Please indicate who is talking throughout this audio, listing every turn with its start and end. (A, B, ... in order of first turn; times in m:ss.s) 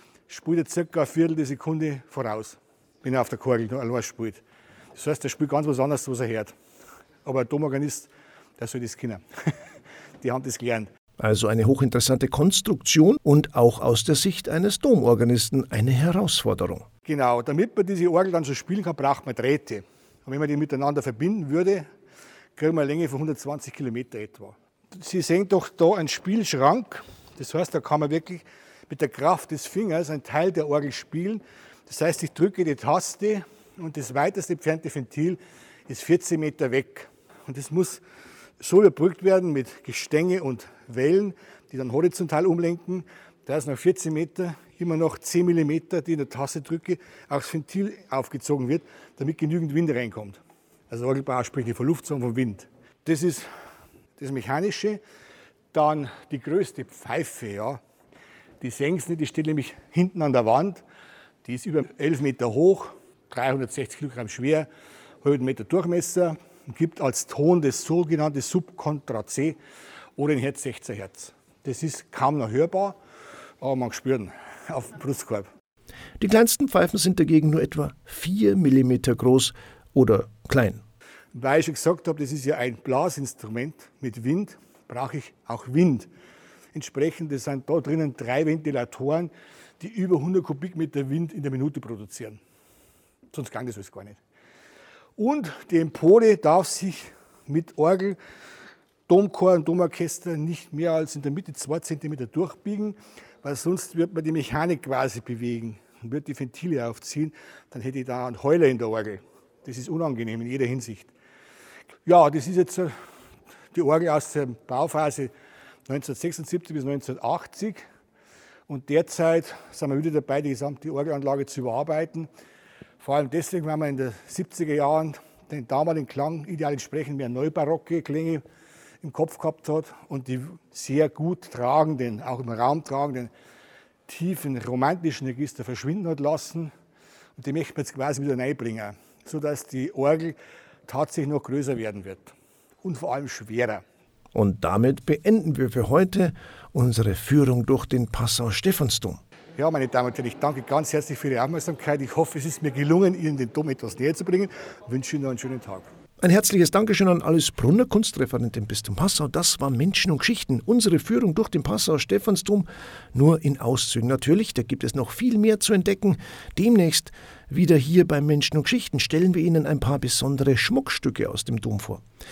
0:00.3-0:04.4 A
0:05.0-0:06.5 A
0:07.2-0:09.5 A
0:10.2-0:10.9 A
0:11.2-0:16.9 B
0:17.0-0:21.9 A
0:22.6-0:38.0 A
0:38.6-0:53.5 A
0:54.2-0:55.0 A
0:55.7-0:57.8 A
0:58.6-1:00.8 A
1:01.4-1:04.7 A
1:05.2-1:09.6 A
1:10.2-1:13.0 A
1:13.6-1:15.5 A
1:16.2-1:20.8 B
1:21.3-1:26.1 A
1:26.7-1:32.4 A
1:33.3-1:34.2 A
1:35.2-1:38.2 A
1:39.1-1:51.1 A
1:52.1-1:52.9 A
1:53.7-1:55.3 A
1:55.9-1:57.8 A
1:58.7-2:02.3 A
2:03.0-2:08.4 A
2:09.0-2:13.3 A
2:14.1-2:16.7 A
2:17.4-2:20.4 A
2:20.9-2:23.8 A
2:24.3-2:29.2 B
2:29.6-2:35.9 A
2:36.2-2:52.0 B